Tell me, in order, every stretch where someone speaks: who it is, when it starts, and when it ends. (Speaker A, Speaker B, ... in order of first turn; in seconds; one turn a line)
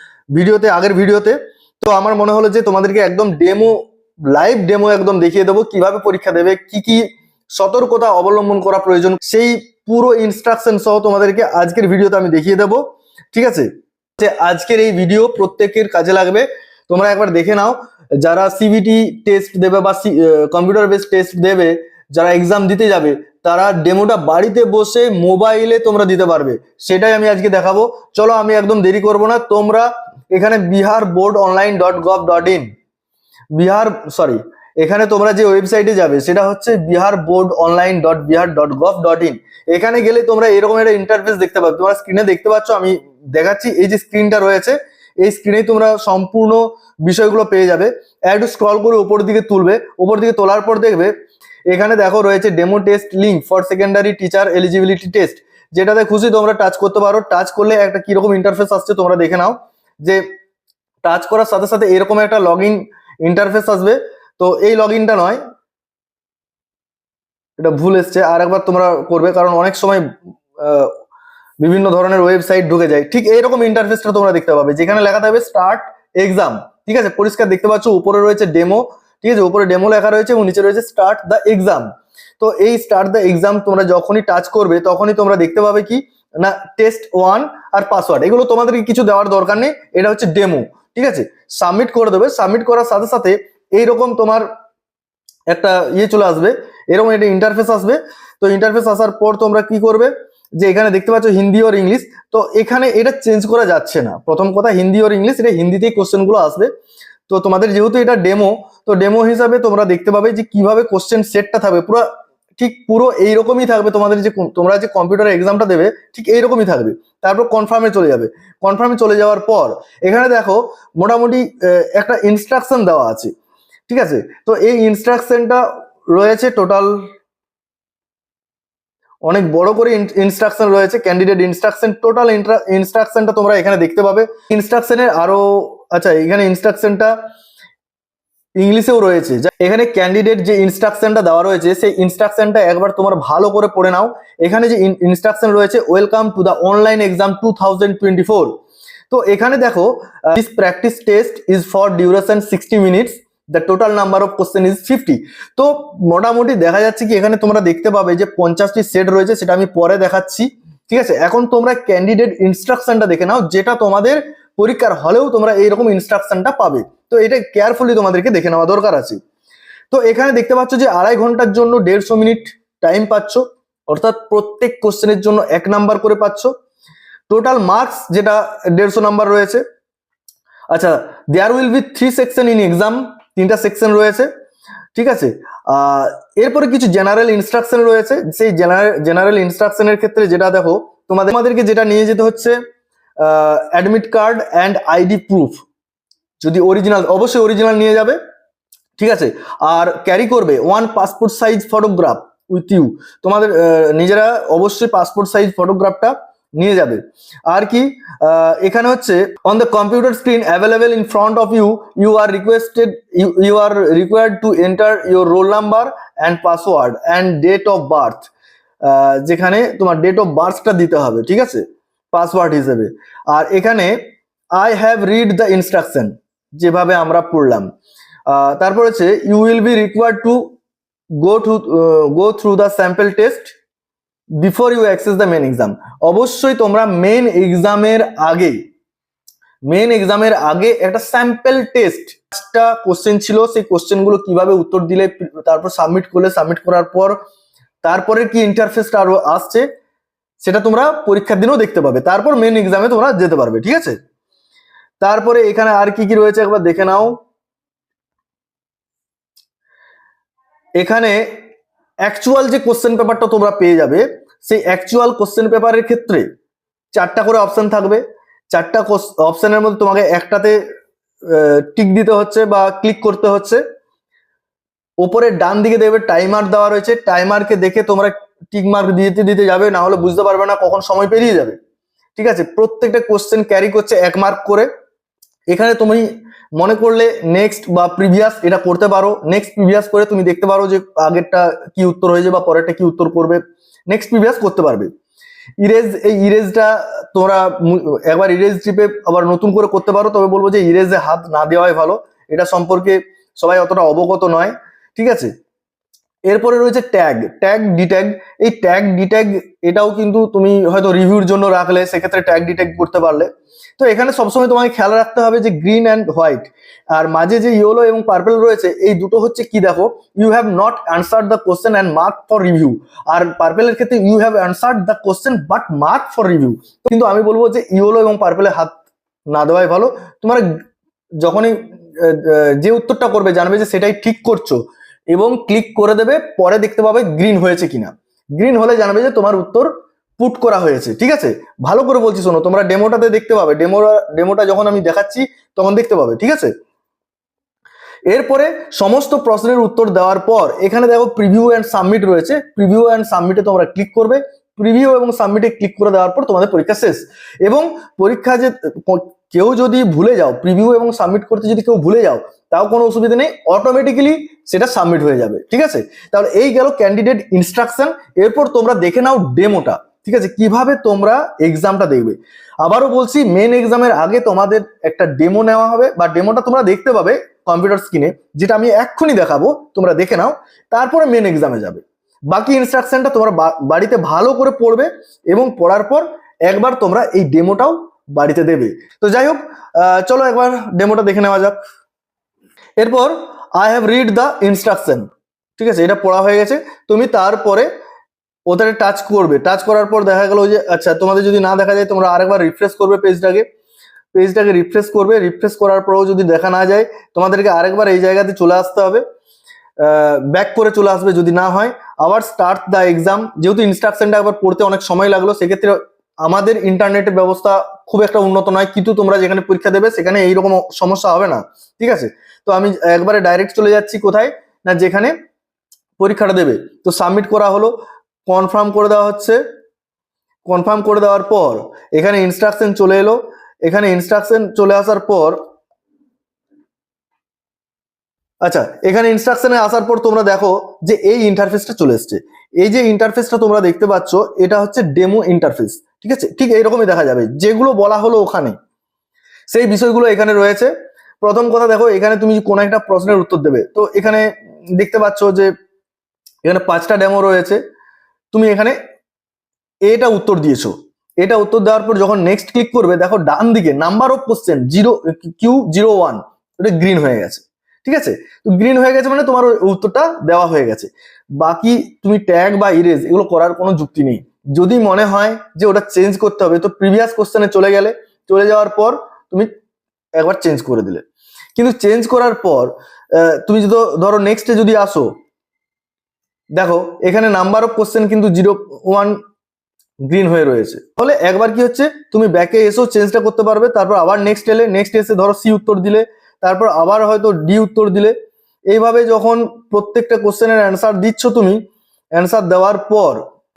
Speaker A: 0.3-32.7
Speaker A: 33.5-51.1
Speaker A: 51.7-60.3
Speaker A: 61.0-65.4
Speaker A: 67.6-70.9
Speaker A: 71.6-81.9
Speaker A: 82.4-94.5
Speaker A: 95.5-106.7
Speaker A: 107.3-123.3
Speaker A: 123.9-127.1
Speaker A: 129.2-137.2
Speaker A: 138.6-148.6
Speaker A: 149.1-169.2
Speaker A: 169.9-176.5
Speaker A: 177.3-179.6
Speaker A: 180.7-184.3
Speaker A: 184.9-192.6
Speaker A: 193.2-195.6
Speaker A: 196.4-198.2
Speaker A: 199.0-218.3
Speaker A: 218.8-224.0
Speaker A: 224.6-227.7
Speaker A: 228.3-230.5
Speaker A: 231.2-233.6
Speaker A: 234.4-238.6
Speaker A: 239.7-247.2
Speaker A: 247.8-249.7
Speaker A: 250.4-254.0
Speaker A: 255.0-257.2
Speaker A: 260.8-261.4
Speaker A: 262.1-266.3
Speaker A: 266.9-270.6
Speaker A: 271.2-273.6
Speaker A: 275.0-281.6
Speaker A: 282.2-284.7
Speaker A: 285.5-294.9
Speaker A: 295.6-305.3
Speaker A: 306.3-328.8
Speaker A: 329.3-330.5
Speaker A: 331.2-346.5
Speaker A: 348.1-391.6
Speaker A: 392.8-397.7
Speaker A: 398.5-403.4
Speaker A: 404.1-409.0
Speaker A: 409.8-425.1
Speaker A: 426.0-427.7
Speaker A: 428.3-429.4
Speaker A: 430.5-435.4
Speaker A: 438.4-448.6
Speaker A: 449.5-455.5
Speaker A: 456.4-457.6
Speaker A: 458.3-458.8
Speaker A: 459.9-479.5
Speaker A: 480.2-481.0
Speaker A: 481.6-485.1
Speaker A: 486.6-489.2
Speaker A: 490.1-498.1
Speaker A: 498.7-501.6
Speaker A: 502.1-503.2